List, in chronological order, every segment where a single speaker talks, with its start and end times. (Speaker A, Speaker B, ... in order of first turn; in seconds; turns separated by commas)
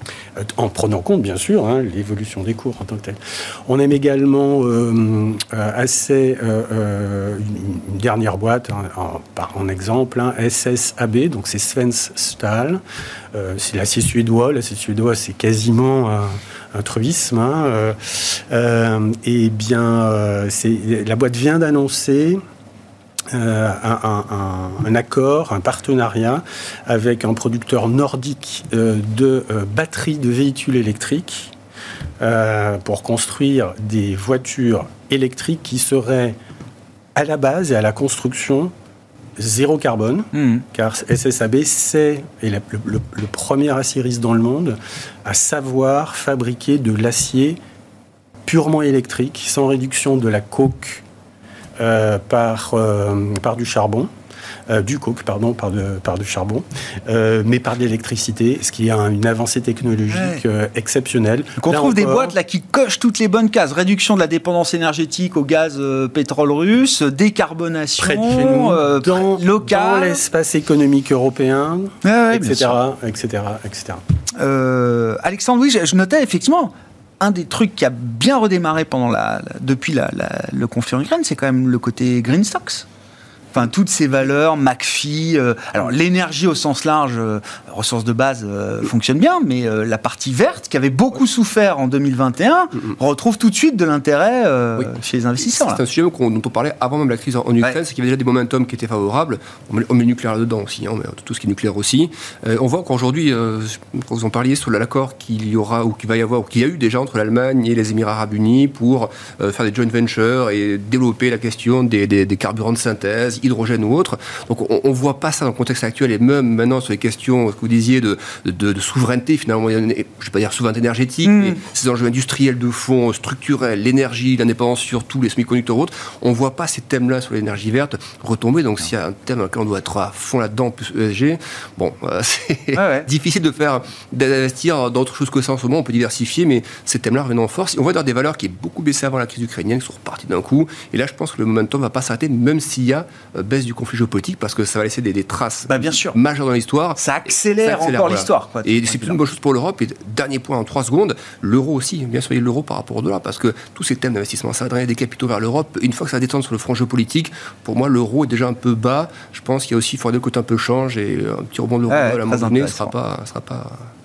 Speaker A: 0.3-12.8, Speaker A: 13.3-22.4, Speaker A: 23.3-31.5, Speaker A: 32.2-36.4, Speaker A: 37.1-38.7, Speaker A: 39.4-47.6, Speaker B: 40.3-40.6, Speaker A: 48.5-51.0, Speaker A: 51.8-54.1, Speaker A: 54.7-62.4, Speaker B: 60.1-60.4, Speaker B: 61.6-70.2, Speaker A: 68.0-74.0, Speaker B: 72.0-72.7, Speaker B: 74.4-82.8, Speaker B: 83.5-95.8, Speaker C: 95.4-163.9, Speaker B: 121.2-121.6, Speaker B: 132.7-133.1, Speaker B: 145.7-146.2, Speaker B: 146.9-149.2, Speaker B: 161.9-162.9